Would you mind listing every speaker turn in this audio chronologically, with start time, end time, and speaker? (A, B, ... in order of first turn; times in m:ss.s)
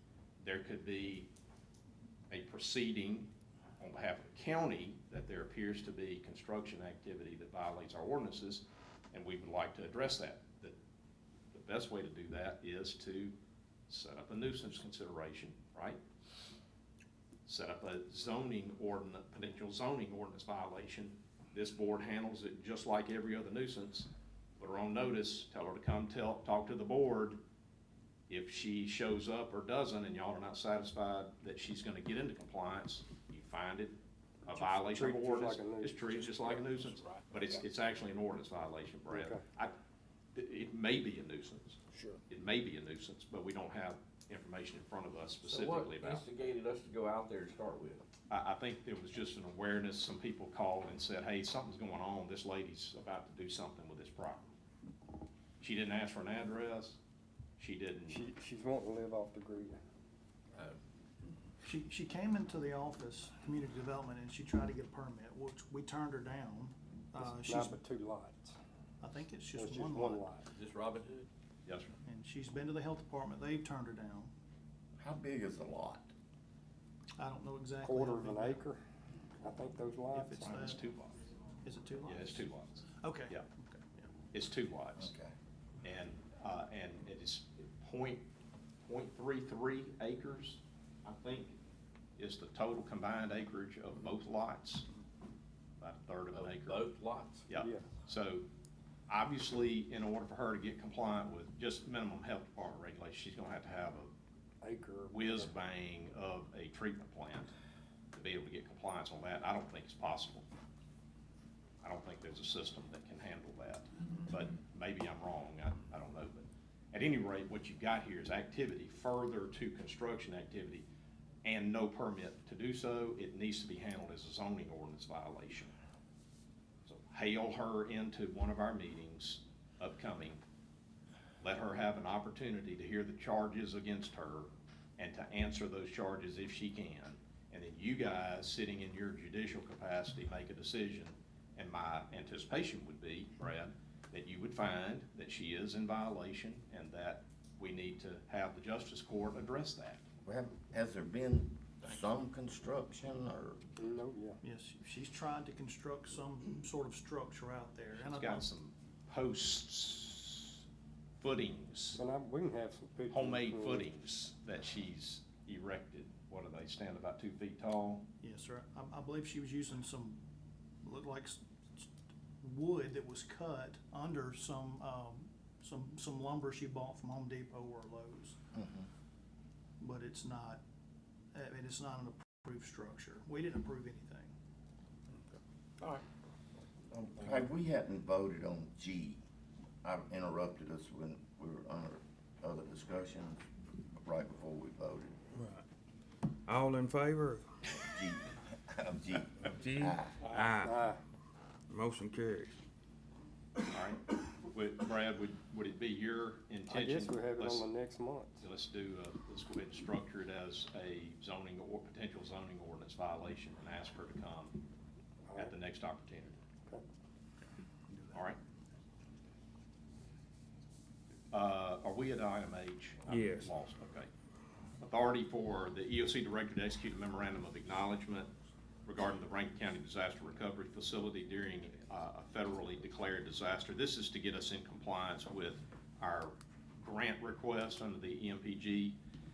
0:00.4-0:01.3 A
0:02.3-0:10.8 A
0:11.5-0:13.4 A
0:13.9-0:16.0 A
0:17.5-0:27.4 A
0:28.3-0:39.7 A
0:34.5-0:36.6 B
0:36.9-0:37.2 C
0:39.1-0:39.4 B
0:40.4-0:46.3 A
0:45.4-0:48.0 C
0:48.3-0:54.5 A
0:55.6-0:57.0 A
0:57.6-0:58.2 A
0:58.1-0:59.8 B
1:01.6-1:07.8 D
1:07.2-1:08.6 B
1:09.0-1:10.3 D
1:09.6-1:10.4 B
1:10.6-1:11.3 C
1:11.7-1:12.0 A
1:12.1-1:14.3 D
1:15.0-1:16.1 E
1:17.2-1:18.6 D
1:17.8-1:18.8 B
1:19.4-1:20.4 B
1:20.1-1:20.8 D
1:20.4-1:21.2 A
1:21.6-1:22.5 D
1:22.0-1:22.8 A
1:23.0-1:24.1 D
1:24.3-1:25.1 A
1:25.0-1:25.3 E
1:25.8-1:28.3 A
1:28.9-1:31.6 A
1:32.2-1:34.9 A
1:35.8-1:36.9 A
1:36.3-1:37.5 C
1:37.5-1:38.5 A
1:37.6-1:37.9 B
1:39.1-1:44.1 A
1:44.6-1:45.4 B
1:45.1-1:47.5 A
1:48.1-1:50.5 A
1:51.8-2:00.9 A
2:01.4-2:05.7 A
2:06.9-2:10.4 A
2:11.4-2:30.0 A
2:30.2-2:33.6 E
2:33.8-2:34.4 B
2:34.4-2:38.5 D
2:37.9-2:40.6 A
2:41.2-2:42.0 A
2:42.0-2:43.9 B
2:43.1-2:48.1 A
2:48.2-2:50.2 D
2:50.8-2:51.9 D
2:52.4-2:58.4 D
2:58.5-2:58.9 E
2:59.8-3:00.6 D
3:01.3-3:04.3 D
3:06.9-3:09.2 E
3:09.8-3:15.2 E
3:15.4-3:15.6 F
3:16.5-3:17.4 F
3:17.8-3:20.2 E
3:19.5-3:20.9 F
3:20.3-3:21.0 B
3:21.7-3:22.5 F
3:23.7-3:27.7 A
3:26.7-3:28.4 B
3:28.4-3:34.6 A
3:35.3-3:35.5 B
3:35.4-3:36.4 A
3:38.1-3:38.4 A
3:41.3-3:44.1 A
3:43.1-3:43.5 F
3:44.8-3:48.3 A
3:48.9-3:59.0 A